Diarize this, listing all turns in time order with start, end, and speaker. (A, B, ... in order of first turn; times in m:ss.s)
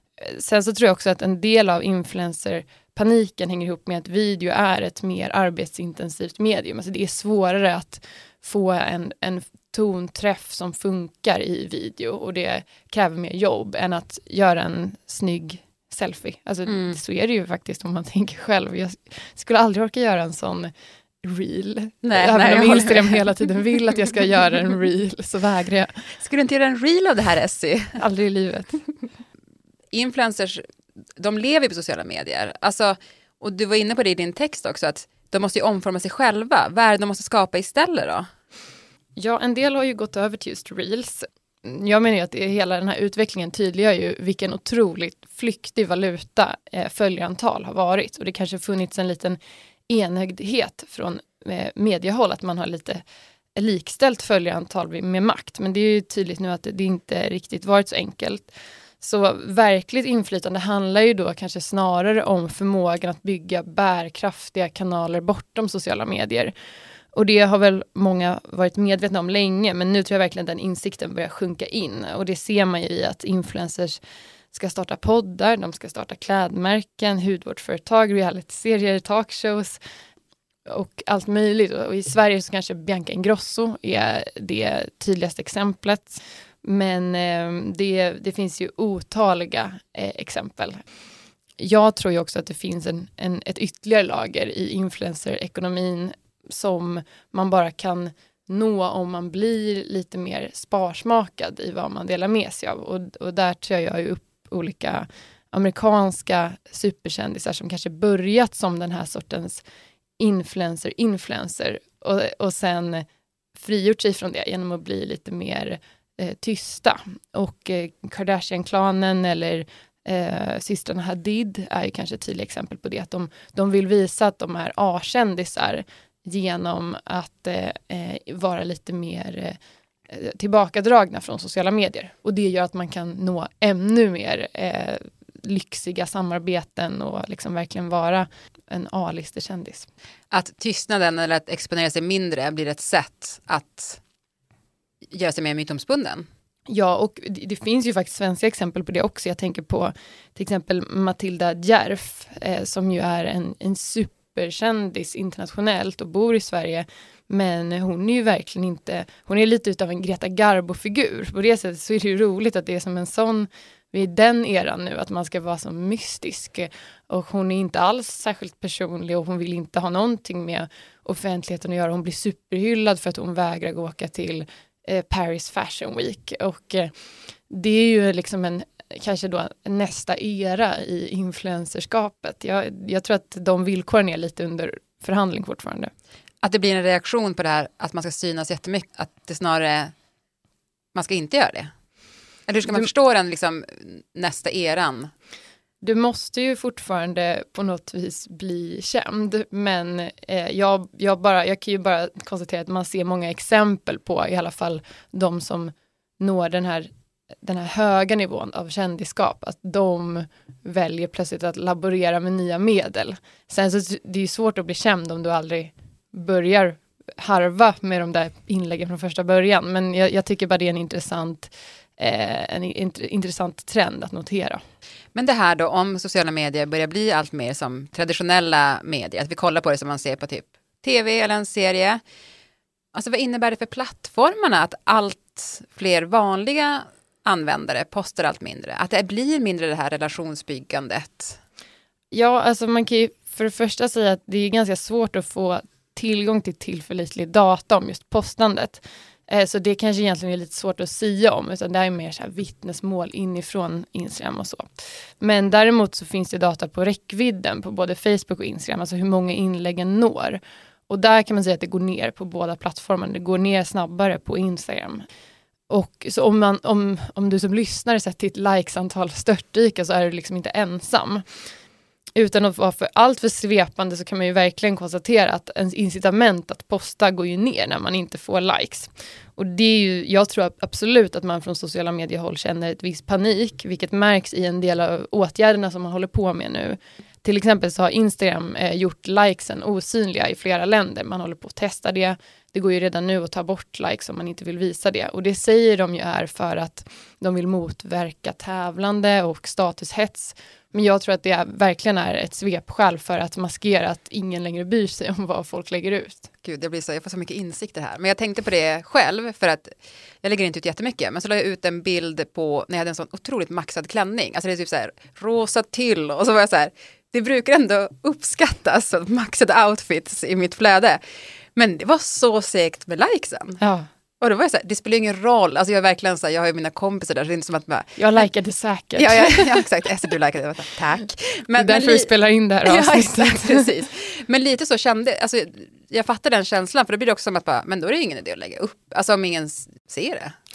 0:00.2-0:20.7 A
0:16.7-0:17.0 B
0:21.2-0:26.0 A
0:22.0-0:23.4 B
0:26.2-0:27.9 B
0:28.0-0:28.8 A
0:29.9-0:30.6 B
0:31.2-0:38.3 B
0:39.2-0:53.0 A
0:53.6-1:06.5 A
1:07.1-1:14.0 A
1:14.5-1:19.8 A
1:20.7-1:30.8 A
1:31.6-1:49.6 A
1:50.2-1:53.0 A
1:53.6-2:09.6 A
2:10.1-2:19.9 A
2:20.3-2:24.0 B
2:25.1-2:26.3 B
2:26.7-2:56.9 A
2:57.5-3:05.9 A
3:06.4-3:09.9 B
3:11.0-3:11.7 B
3:12.5-3:15.1 B
3:15.8-3:26.9 A
3:27.4-3:44.6 A
3:45.2-3:52.0 B
3:53.0-4:01.4 B
4:02.1-4:14.7 A
4:15.2-4:25.0 A
4:25.7-4:31.2 A
4:32.2-5:06.2 A
5:06.4-5:09.7 B
5:10.2-5:21.0 B
5:21.6-5:23.6 B
5:23.6-5:23.9 A
5:24.2-5:28.0 B
5:28.0-5:29.6 A
5:29.0-5:32.1 B
5:31.6-5:33.6 A
5:32.6-5:40.3 B